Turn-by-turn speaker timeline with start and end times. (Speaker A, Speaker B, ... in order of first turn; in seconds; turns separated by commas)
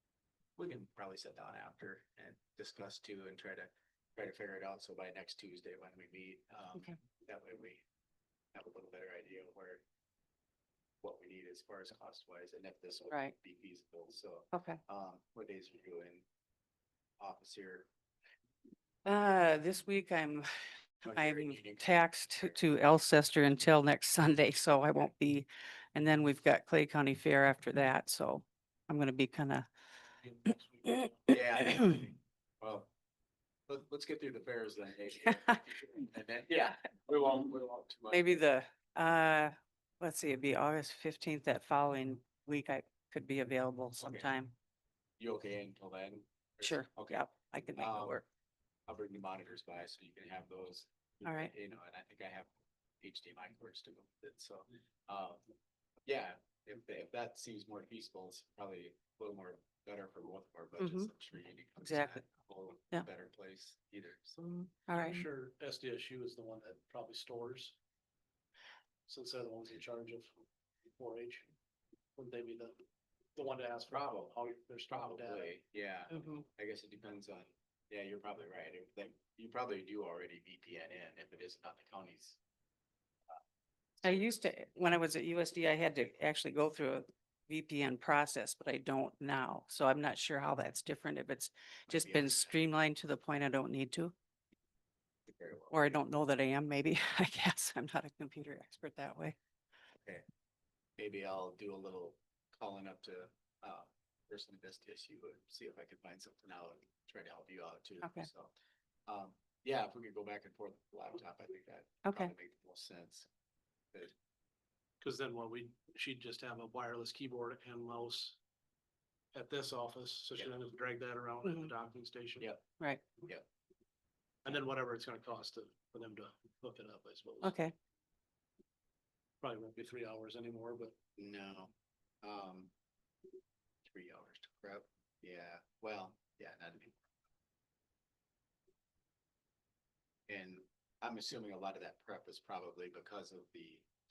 Speaker A: 0.6-7.8, Speaker A: 8.5-9.8, Speaker A: 11.0-16.2, Speaker B: 14.5-14.8, Speaker A: 17.2-17.9, Speaker B: 19.0-20.5, Speaker B: 21.0-29.7, Speaker A: 21.0-22.6, Speaker C: 30.2-31.4, Speaker B: 30.8-31.9, Speaker A: 31.3-32.9, Speaker A: 33.7-38.5, Speaker B: 38.1-44.5, Speaker A: 44.0-44.3, Speaker A: 45.2-47.2, Speaker B: 46.6-48.2, Speaker A: 47.8-48.2, Speaker A: 48.9-55.4, Speaker B: 51.2-51.5, Speaker A: 56.0-64.7, Speaker B: 60.8-61.1, Speaker B: 61.8-62.2, Speaker B: 64.4-65.2, Speaker C: 64.9-67.8, Speaker C: 69.1-70.3, Speaker C: 71.0-71.5, Speaker C: 72.2-72.8, Speaker C: 73.3-75.5, Speaker A: 73.9-74.3, Speaker A: 74.9-82.4, Speaker B: 76.1-76.4, Speaker A: 84.0-84.4, Speaker B: 84.0-94.1, Speaker A: 91.9-92.5, Speaker A: 95.3-95.9, Speaker B: 95.7-99.3, Speaker A: 101.0-108.5, Speaker B: 108.0-108.3, Speaker A: 109.1-113.3, Speaker B: 112.0-112.3, Speaker C: 115.0-118.4, Speaker C: 119.3-122.5, Speaker B: 121.4-121.7, Speaker B: 122.8-123.2, Speaker C: 124.4-127.6, Speaker B: 127.4-127.7, Speaker C: 129.4-130.9, Speaker A: 131.2-132.7, Speaker A: 133.8-137.0, Speaker A: 140.3-143.8